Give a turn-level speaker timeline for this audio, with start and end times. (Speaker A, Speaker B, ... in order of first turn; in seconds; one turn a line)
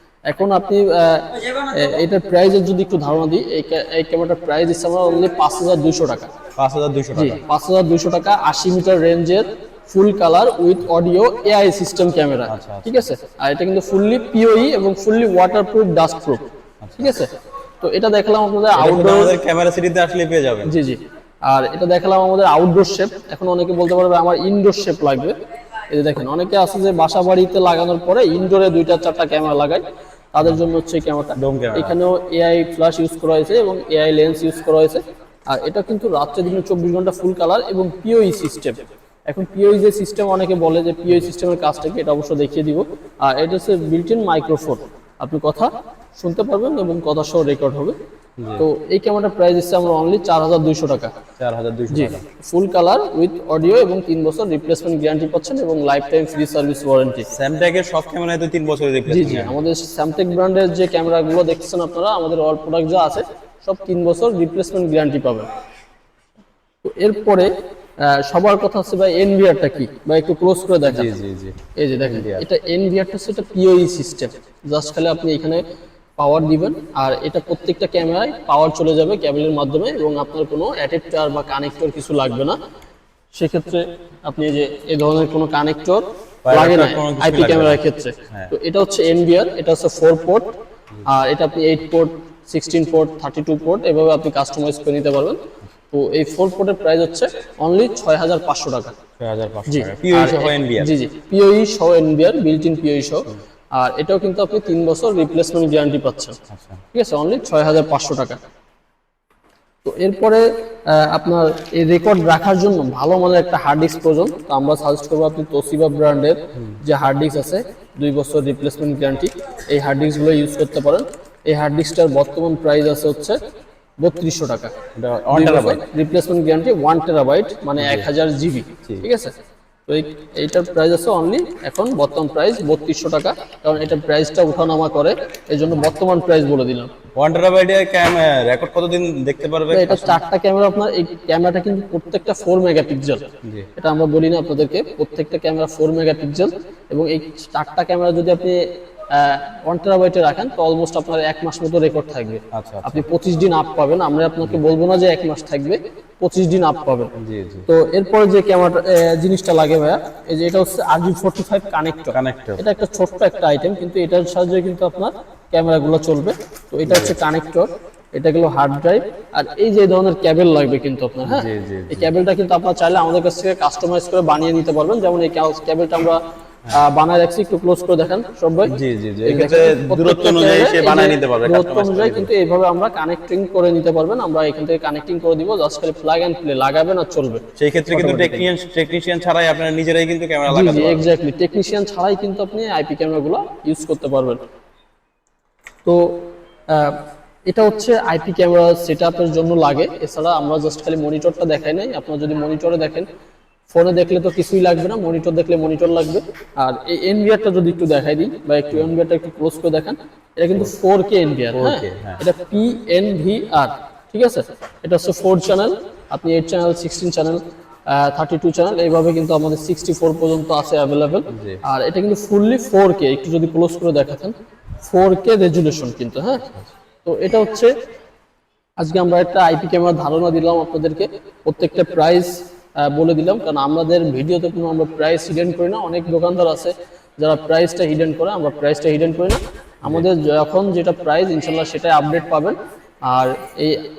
Speaker A: 0.3-6.3
Speaker B: 6.6-7.4
Speaker A: 7.2-16.5
Speaker B: 12.5-13.1
Speaker B: 16.8-17.1
Speaker A: 17.0-19.4
Speaker B: 18.7-20.8
Speaker A: 20.7-25.4
Speaker A: 25.9-29.8
Speaker A: 30.3-48.0
Speaker B: 31.4-32.0
Speaker B: 48.4-48.6
Speaker A: 48.6-51.1
Speaker B: 51.4-52.2
Speaker A: 51.9-57.3
Speaker B: 57.3-59.6
Speaker A: 59.1-65.5
Speaker A: 66.8-71.1
Speaker B: 70.9-72.5
Speaker A: 71.8-75.6
Speaker A: 76.2-82.6
Speaker A: 83.3-90.5
Speaker B: 86.4-87.8
Speaker A: 91.0-99.0
Speaker B: 99.2-101.0
Speaker A: 99.7-106.4
Speaker B: 106.5-106.8
Speaker A: 106.9-108.4
Speaker A: 109.8-123.4
Speaker A: 124.0-124.7
Speaker B: 125.0-125.8
Speaker A: 125.3-129.3
Speaker B: 127.8-128.1
Speaker A: 129.9-136.9
Speaker B: 137.2-140.2
Speaker A: 139.7-143.2
Speaker B: 143.4-143.7
Speaker A: 143.8-157.1
Speaker B: 152.5-153.1
Speaker B: 157.2-157.7
Speaker A: 157.7-176.2
Speaker B: 162.1-162.6
Speaker B: 166.8-167.2
Speaker B: 171.3-172.1
Speaker A: 176.7-178.7
Speaker B: 178.7-182.3
Speaker A: 179.2-188.5
Speaker B: 187.6-191.1
Speaker A: 190.5-194.4
Speaker A: 195.8-196.2
Speaker A: 196.7-203.1
Speaker A: 203.7-226.5
Speaker B: 211.5-212.2
Speaker B: 221.3-221.6
Speaker A: 227.0-227.7
Speaker A: 228.8-243.8